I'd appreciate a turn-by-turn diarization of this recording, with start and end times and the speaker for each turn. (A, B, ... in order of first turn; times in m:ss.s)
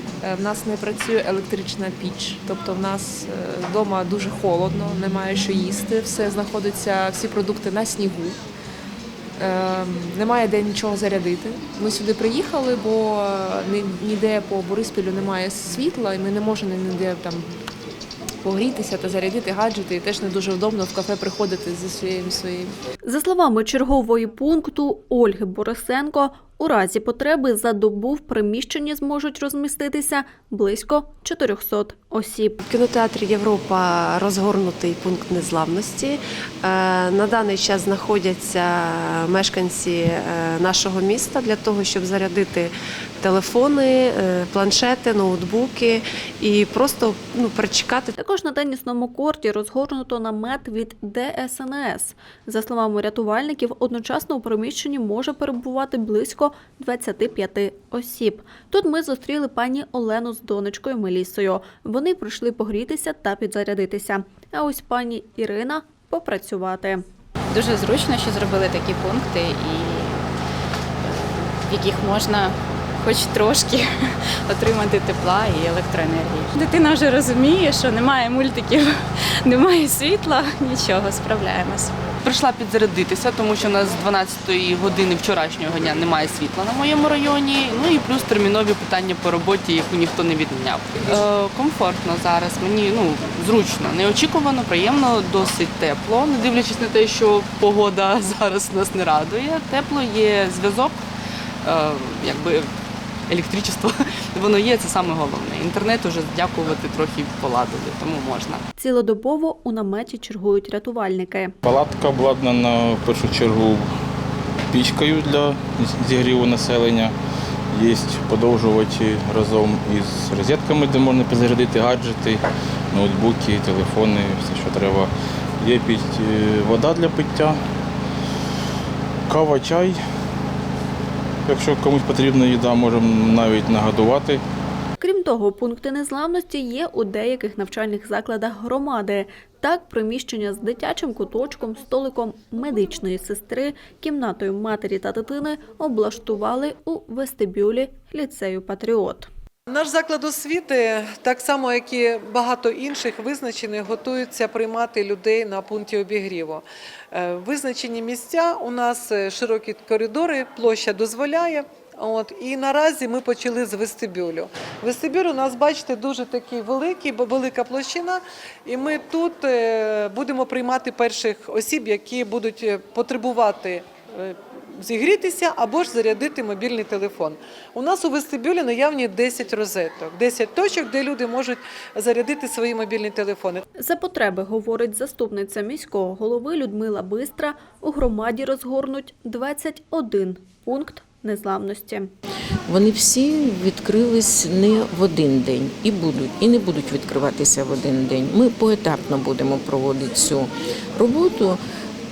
0:00.2-0:08.4 A
0:09.4-0:17.5 A
0:18.4-0:22.8 A
0:23.0-0:32.6 B
0:32.6-0:48.1 C
0:48.2-1:07.0 B
1:07.5-1:10.2 D
1:11.0-1:21.9 D
1:22.2-1:41.0 E
1:41.6-1:42.7 E
1:43.3-1:48.6 E
1:48.8-1:51.5 B
1:51.6-1:53.9 F
1:54.7-1:57.2 F
1:57.7-2:07.6 F
2:09.3-2:10.0 F
2:11.5-2:14.4 F
2:15.0-2:29.3 B
2:29.7-3:03.6 G
3:03.8-3:12.1 B
3:12.7-3:21.6 H